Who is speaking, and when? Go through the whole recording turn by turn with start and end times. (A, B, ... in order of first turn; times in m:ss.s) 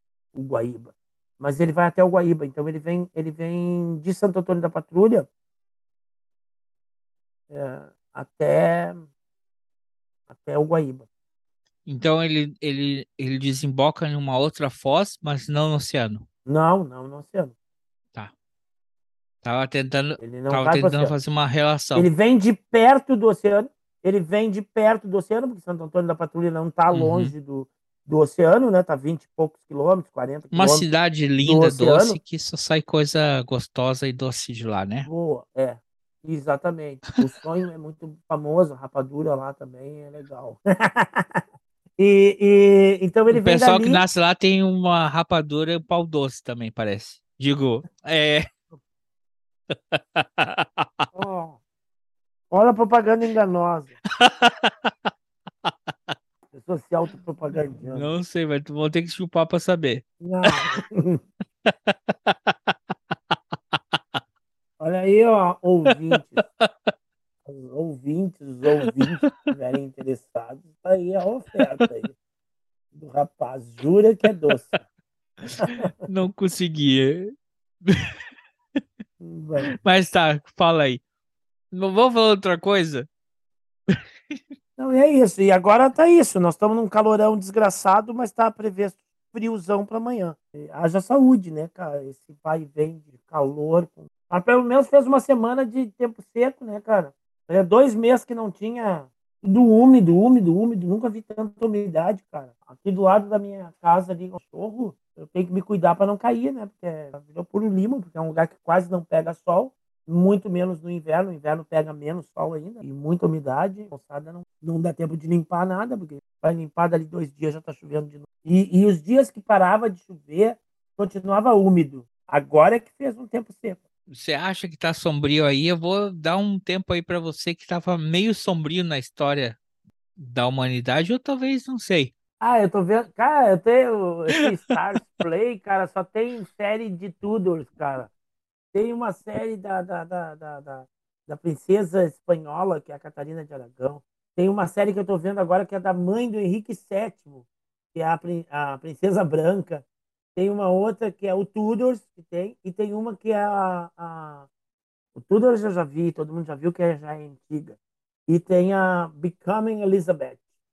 0:00.3-0:05.3 A
0:07.5-0:09.0 A
0:10.3-0:11.0 A
0:11.8-0:16.2 B
0:16.5-0:17.5 A
0:19.4-0:22.1 B
0:20.2-0:21.1 A
0:21.9-0:30.9 A
0:26.9-0:27.3 B
0:30.5-0:35.1 B
0:31.4-0:32.2 A
0:35.0-0:41.4 A
0:42.0-0:44.0 A
0:43.3-0:48.5 B
0:49.7-0:51.0 B
0:51.1-0:51.6 A
0:52.5-0:53.9 A
0:54.2-0:55.1 B
0:55.6-0:56.1 B
0:56.5-0:58.1 A
0:57.8-1:00.6 B
1:00.2-1:01.2 A
1:02.2-1:02.7 B
1:03.3-1:04.2 B
1:04.8-1:06.4 A
1:06.6-1:06.9 B
1:07.4-1:12.1 A
1:09.0-1:09.5 B
1:12.9-1:14.7 A
1:14.5-1:14.8 B
1:15.4-1:17.3 B
1:15.6-1:15.9 A
1:17.8-1:18.1 B
1:19.2-1:19.7 A
1:19.7-1:21.0 B
1:21.7-1:23.0 B
1:23.9-1:24.4 B
1:24.8-2:03.8 A
2:04.1-2:09.6 B
2:10.2-2:12.1 B
2:12.4-2:18.1 A
2:18.7-2:29.8 A
2:30.3-2:34.5 A
2:35.1-2:37.8 A
2:38.3-2:40.4 A